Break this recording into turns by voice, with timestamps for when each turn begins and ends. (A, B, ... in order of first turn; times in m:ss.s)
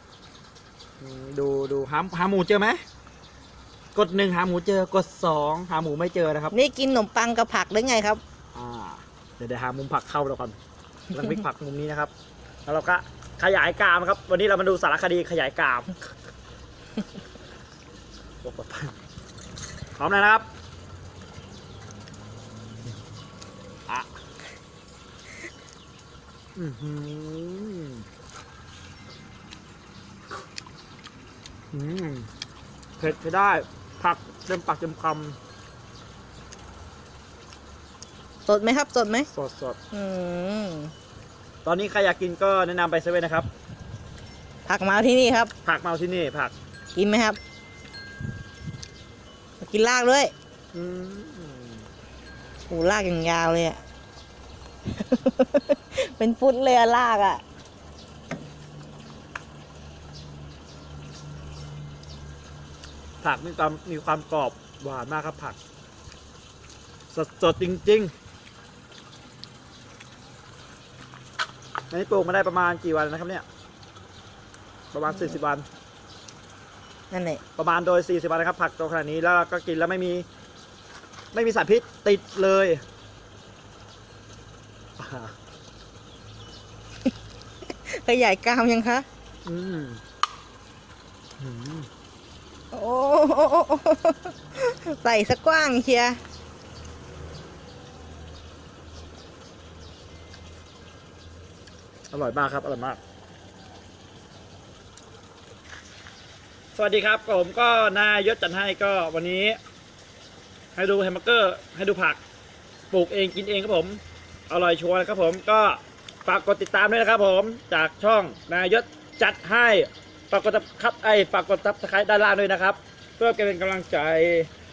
0:01.0-0:02.8 A
0:03.9-0:06.5 A
0:06.5-0:08.2 B
0:08.5-0:10.6 A
0:11.1-0:12.1 A
0:12.6-0:16.0 A
0:18.4-0:18.9 A
0:20.0-0:20.4 A
0:26.6-0:28.0 A
0:31.7-0:32.3 A
0:33.0-0:35.4 A
0:38.5-0:39.3 B
0:39.3-0:39.8 A
0:39.9-0:40.9 B
0:41.6-0:43.5 A
0:44.7-0:45.5 B
0:45.6-0:46.5 A
0:46.9-0:47.4 B
0:49.6-0:50.3 B
0:50.7-0:51.9 A
0:52.7-0:53.8 B
0:54.9-0:57.4 B
1:03.2-1:05.6 A
1:07.1-1:08.1 A
1:11.9-1:13.4 A
1:14.9-1:15.6 A
1:17.1-1:17.4 B
1:17.6-1:20.2 A
1:21.3-1:22.8 A
1:25.0-1:25.3 A
1:27.6-1:29.0 B
1:29.4-1:30.0 A
1:31.4-1:31.9 A
1:32.7-1:36.2 B
1:42.1-1:43.0 A
1:46.7-1:49.6 A
1:50.7-1:52.2 A
1:52.9-2:04.5 A